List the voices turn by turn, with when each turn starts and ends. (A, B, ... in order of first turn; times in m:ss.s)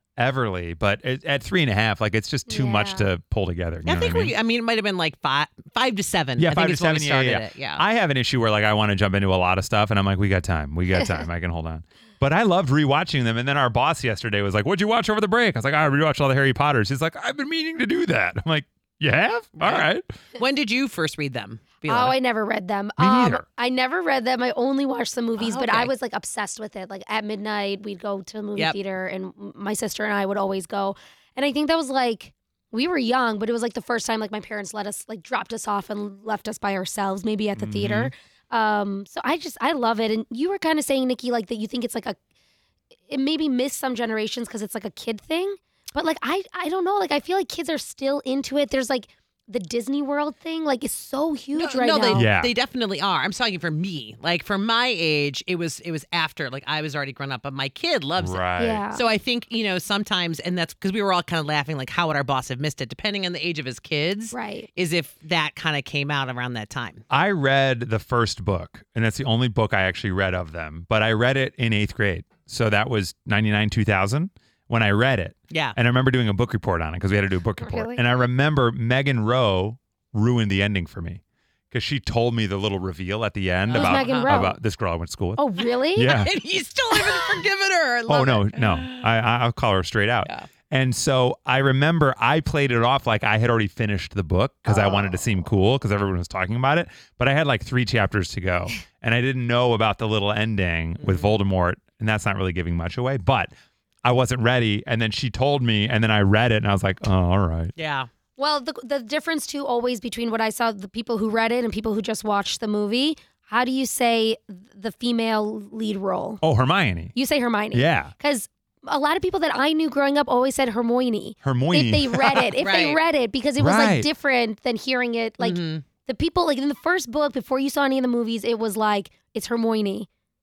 0:00.2-0:04.3 A
0:02.5-0:03.1 B
0:03.8-0:07.8 C
0:06.4-0:20.0 A
0:19.6-0:22.2 C
0:21.9-0:42.2 B
0:23.0-0:23.4 A
0:25.4-0:25.9 C
0:37.6-0:38.1 A
0:43.1-0:52.2 B
0:51.5-1:07.0 C
0:52.1-0:52.5 A
0:58.2-0:58.8 A
0:58.6-0:59.0 B
1:04.3-1:04.7 B
1:07.1-1:26.3 A
1:15.5-1:15.8 C
1:17.6-1:18.0 B
1:23.7-1:24.4 C
1:23.8-1:24.6 B
1:25.4-1:26.2 B
1:26.1-1:29.1 C
1:28.1-1:43.5 A
1:34.7-1:35.2 C
1:41.0-1:41.4 C
1:44.0-1:47.7 A
1:47.8-1:48.1 C
1:48.4-1:56.4 B
1:56.4-1:57.2 A
1:57.2-2:10.1 B
1:57.7-1:58.1 A
2:01.4-2:02.6 A
2:02.6-2:03.0 C
2:03.6-2:04.1 A
2:05.4-2:05.9 C